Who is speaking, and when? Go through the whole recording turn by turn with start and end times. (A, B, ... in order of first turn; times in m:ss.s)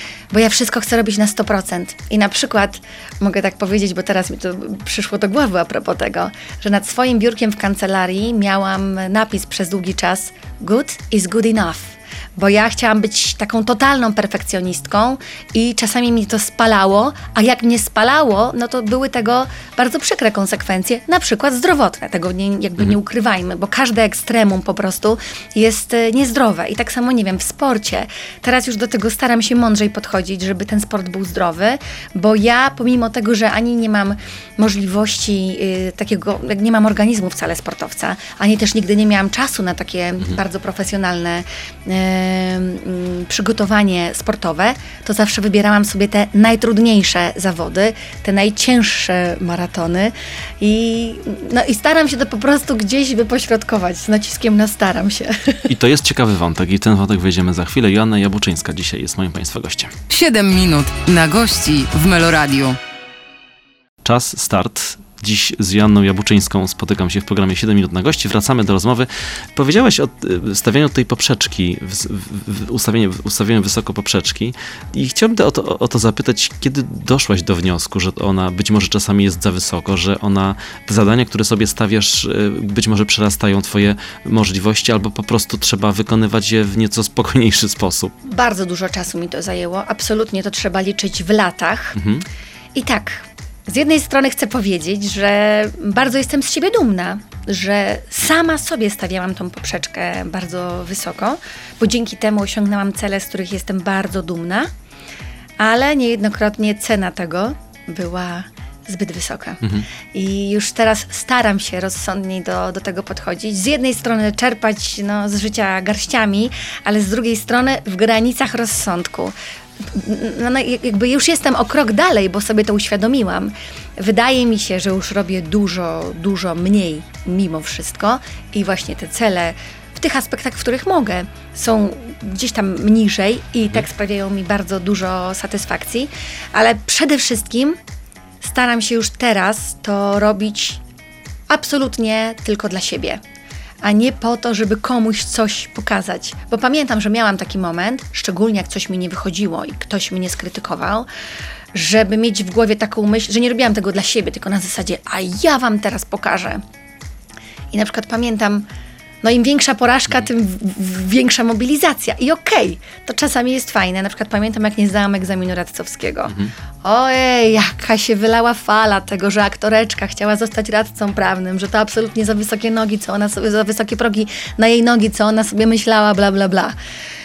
0:00.3-0:55.7 A
0:55.7-0:59.9 B
1:00.1-1:02.8 C
1:04.0-1:28.2 B
1:28.2-1:32.0 A
1:32.0-1:32.2 B
1:32.8-1:44.7 A
1:45.6-2:17.8 A
2:18.4-2:20.8 A
2:21.5-2:23.2 A
2:23.8-2:31.1 A
2:31.7-2:36.6 A
2:37.7-2:38.7 A
2:39.2-2:56.8 A